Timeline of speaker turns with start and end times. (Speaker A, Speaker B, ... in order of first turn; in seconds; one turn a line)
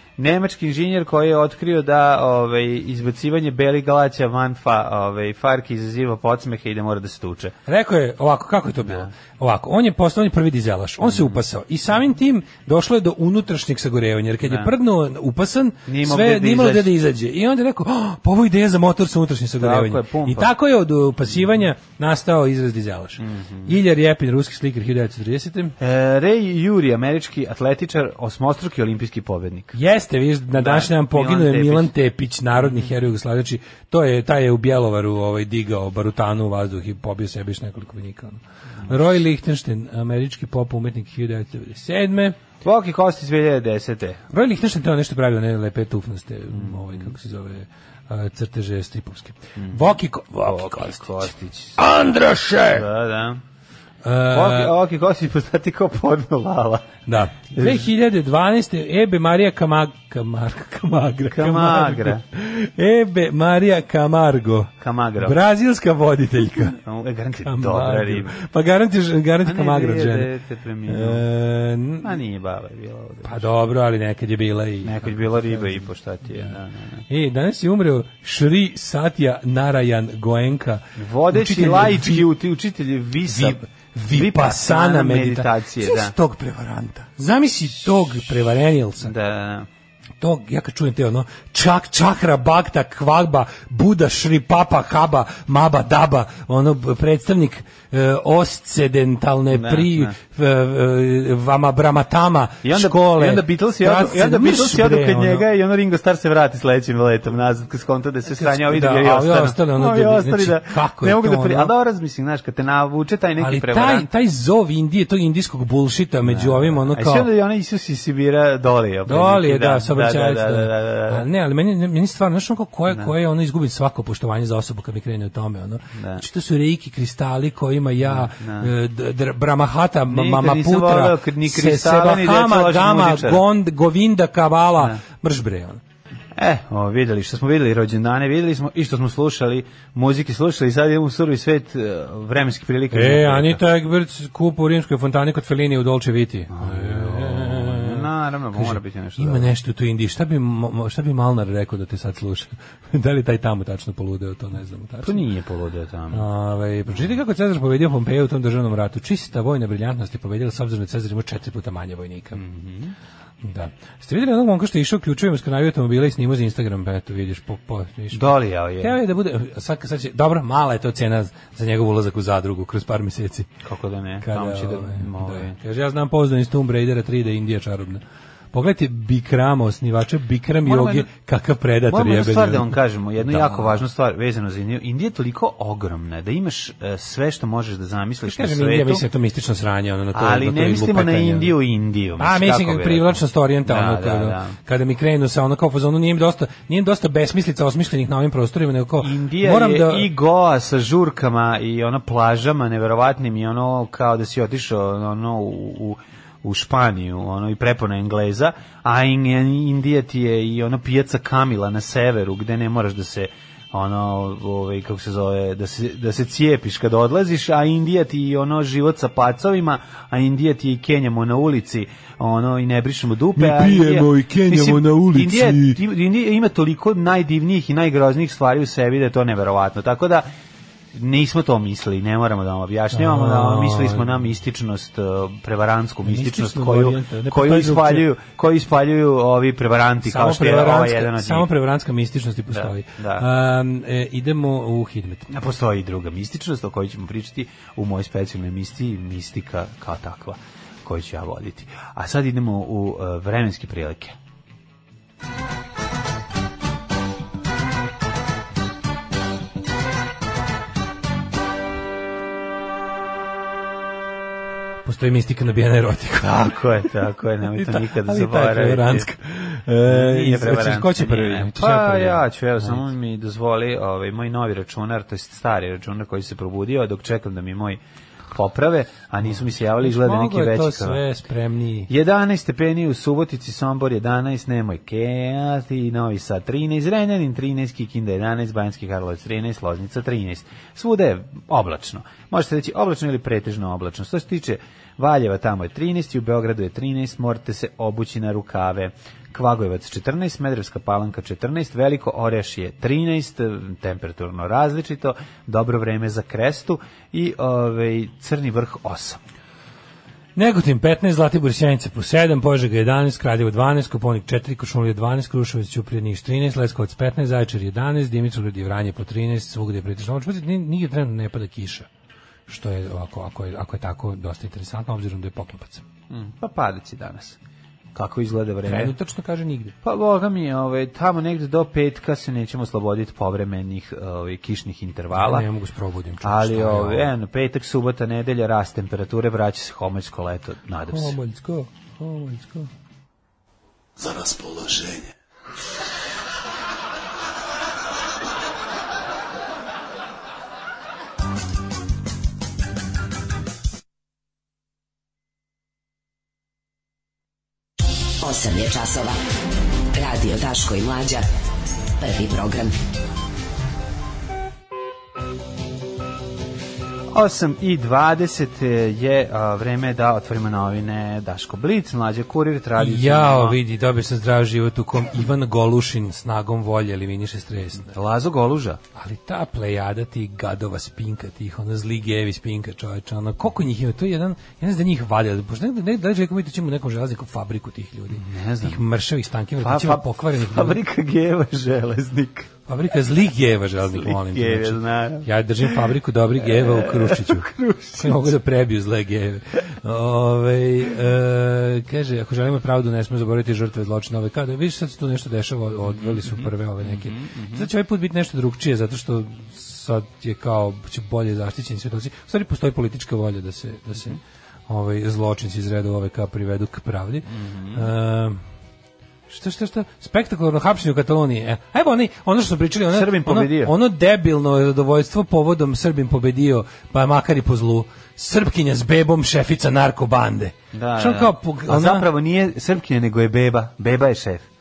Speaker A: 0.2-7.5
Speaker B: 7.7-25.7
Speaker A: 8.8-9.1
Speaker A: 11.0-11.4
Speaker A: 14.4-14.7
Speaker A: 15.9-16.9
Speaker A: 19.6-20.5
Speaker A: 23.2-23.7
Speaker A: 25.8-29.8
Speaker B: 29.7-42.4
Speaker A: 30.6-31.9
Speaker A: 32.6-32.9
Speaker A: 42.6-44.2
Speaker B: 44.3-52.8
Speaker A: 46.5-47.1
Speaker A: 49.6-51.9
Speaker A: 52.6-53.4
Speaker B: 54.0-54.7
Speaker A: 54.3-57.0
Speaker B: 57.1-66.8
Speaker A: 57.5-57.9
Speaker A: 61.3-62.2
Speaker A: 64.8-65.4
Speaker A: 66.6-68.4
Speaker B: 67.4-70.3
Speaker A: 69.4-71.2
Speaker B: 70.9-72.1
Speaker A: 72.0-73.5
Speaker B: 73.2-75.8
Speaker A: 74.8-77.0
Speaker B: 77.1-82.3
Speaker A: 81.0-86.1
Speaker B: 83.2-89.1
Speaker A: 89.0-89.7
Speaker B: 90.2-105.5
Speaker A: 99.5-100.1
Speaker A: 102.6-114.1
Speaker B: 108.2-111.7
Speaker B: 113.4-117.3
Speaker A: 116.2-121.2
Speaker B: 119.1-135.8
Speaker A: 126.0-126.2
Speaker A: 128.0-128.7
Speaker A: 130.1-133.4
Speaker A: 136.3-143.6
Speaker B: 142.9-155.2
Speaker A: 146.5-149.5
Speaker A: 155.0-156.2
Speaker B: 156.1-162.4
Speaker A: 162.3-162.9
Speaker B: 163.4-173.5
Speaker A: 168.1-169.0
Speaker A: 173.6-175.6
Speaker B: 174.2-178.0
Speaker B: 178.5-183.8
Speaker A: 180.6-181.1
Speaker A: 181.9-189.0
Speaker B: 188.2-191.5
Speaker A: 190.1-194.6
Speaker B: 192.2-200.1
Speaker A: 199.0-230.3
Speaker B: 223.3-225.8
Speaker A: 230.9-241.5
Speaker B: 232.9-234.2
Speaker B: 236.0-238.1
Speaker B: 240.0-245.3
Speaker A: 242.5-243.3
Speaker A: 245.3-254.2
Speaker B: 264.8-266.5
Speaker A: 266.2-269.1
Speaker B: 267.5-272.8
Speaker A: 269.8-277.8
Speaker A: 278.3-281.0
Speaker B: 279.8-281.9
Speaker A: 281.9-309.2
Speaker B: 310.4-321.9
Speaker B: 322.5-325.8
Speaker A: 326.1-327.4
Speaker A: 327.9-328.9
Speaker B: 328.6-329.7
Speaker A: 329.8-335.5
Speaker B: 335.1-337.1
Speaker A: 336.2-341.2
Speaker B: 340.9-342.7
Speaker B: 344.0-345.1
Speaker C: 358.2-359.2
Speaker C: 359.9-361.2
Speaker C: 362.0-362.8
Speaker A: 367.1-373.6
Speaker B: 372.8-377.9
Speaker A: 377.9-378.8
Speaker B: 378.9-390.8
Speaker A: 388.1-388.8
Speaker A: 389.6-392.5
Speaker B: 392.7-418.4
Speaker A: 393.9-395.9
Speaker A: 396.4-398.3
Speaker A: 405.9-407.7
Speaker A: 417.3-417.9
Speaker B: 419.3-432.1
Speaker A: 422.9-423.7
Speaker A: 430.7-434.4